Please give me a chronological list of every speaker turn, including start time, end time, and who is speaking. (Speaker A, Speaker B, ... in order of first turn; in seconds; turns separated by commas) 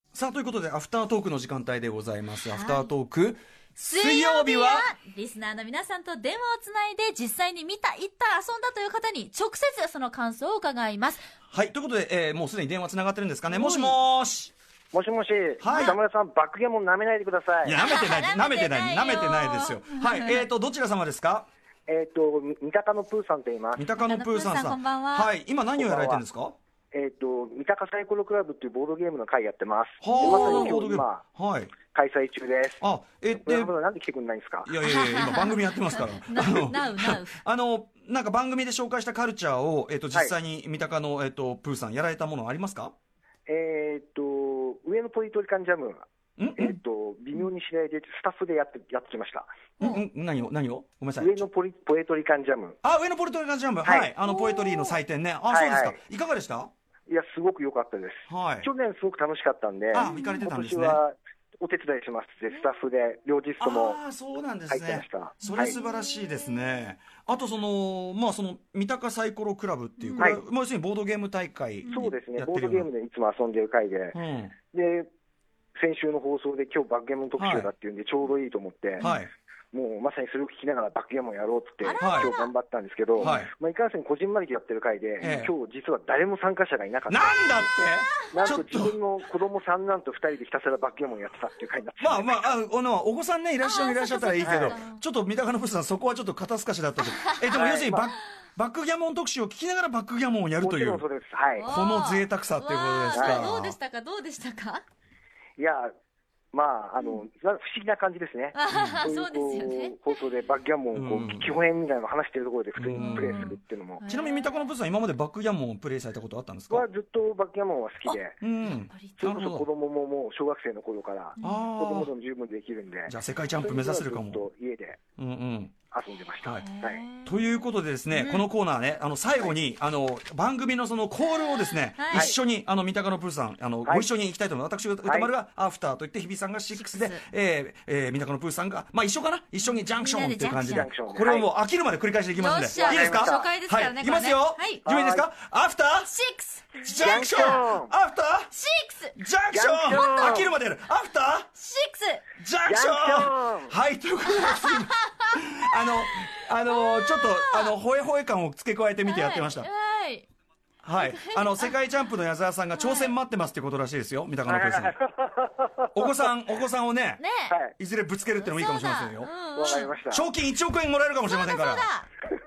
Speaker A: 0.1-4.9, Speaker B: 2.4-2.9, Speaker B: 3.8-11.2, Speaker A: 11.5-14.5, Speaker B: 13.5-13.9, Speaker C: 14.9-17.8, Speaker A: 15.6-16.0, Speaker B: 15.7-16.0, Speaker A: 17.6-21.5, Speaker B: 17.8-20.4, Speaker C: 21.9-23.8, Speaker A: 23.8-26.6, Speaker B: 24.0-25.3, Speaker C: 25.7-26.2, Speaker C: 26.9-31.2, Speaker A: 30.0-31.7, Speaker B: 30.1-30.8, Speaker C: 31.9-32.8, Speaker A: 32.8-33.7, Speaker C: 33.4-34.7, Speaker A: 34.6-42.9, Speaker B: 34.8-37.3, Speaker C: 43.5-46.0, Speaker A: 46.4-46.8, Speaker C: 46.6-49.5, Speaker A: 49.8-51.4, Speaker C: 51.2-52.8, Speaker A: 52.8-56.7, Speaker C: 53.8-54.1, Speaker B: 54.2-55.0, Speaker C: 55.5-56.0, Speaker C: 57.1-64.0, Speaker A: 58.3-58.7, Speaker A: 59.9-61.0, Speaker B: 60.0-60.5, Speaker A: 63.6-72.9, Speaker C: 64.7-65.8, Speaker B: 65.4-66.5, Speaker B: 70.0-70.4, Speaker C: 71.9-74.2, Speaker A: 74.1-74.5, Speaker C: 74.7-75.1, Speaker C: 75.8-79.0, Speaker A: 77.4-77.7, Speaker A: 79.0-79.3, Speaker C: 79.7-87.7, Speaker B: 81.8-82.5, Speaker A: 82.0-82.3, Speaker A: 83.2-83.5, Speaker B: 85.2-85.5, Speaker A: 85.2-85.5, Speaker A: 87.1-88.9, Speaker C: 88.3-92.5, Speaker A: 92.0-101.0, Speaker B: 93.6-95.0, Speaker C: 94.4-94.8, Speaker B: 97.2-97.4, Speaker C: 97.5-98.1, Speaker C: 100.6-101.7, Speaker B: 101.5-104.8, Speaker A: 101.7-103.8, Speaker C: 103.1-103.5, Speaker C: 105.6-105.9, Speaker C: 106.5-114.0, Speaker B: 108.5-110.0, Speaker A: 108.7-109.0, Speaker A: 110.9-111.5, Speaker A: 112.8-113.5, Speaker B: 113.0-114.6, Speaker A: 114.0-116.8, Speaker C: 116.7-118.4, Speaker B: 118.0-119.2, Speaker A: 118.4-119.7, Speaker C: 119.2-125.0, Speaker B: 121.4-121.7, Speaker A: 121.4-122.1, Speaker A: 123.1-124.4, Speaker A: 125.2-125.7, Speaker C: 125.9-127.0, Speaker B: 126.6-127.3, Speaker A: 127.2-146.1, Speaker B: 128.1-128.5, Speaker B: 131.2-132.3, Speaker C: 135.0-135.3, Speaker B: 136.7-137.2, Speaker B: 139.7-140.9, Speaker C: 140.6-141.5, Speaker B: 142.4-144.8, Speaker C: 142.8-143.5, Speaker C: 144.8-145.3, Speaker B: 146.1-147.6, Speaker A: 146.8-148.5, Speaker C: 147.0-147.9, Speaker B: 148.5-149.1, Speaker A: 149.1-151.5, Speaker C: 149.5-150.5, Speaker B: 149.9-150.5, Speaker B: 151.6-152.2, Speaker A: 152.4-159.7, Speaker C: 152.6-153.7, Speaker B: 154.3-155.3, Speaker B: 156.7-157.7, Speaker B: 159.0-160.2, Speaker A: 160.8-165.0, Speaker B: 160.9-161.7, Speaker B: 162.8-163.1, Speaker C: 164.5-165.9, Speaker A: 165.9-167.2, Speaker B: 167.2-167.6, Speaker A: 167.8-171.9, Speaker B: 168.4-169.9, Speaker C: 169.5-170.3, Speaker B: 171.2-172.1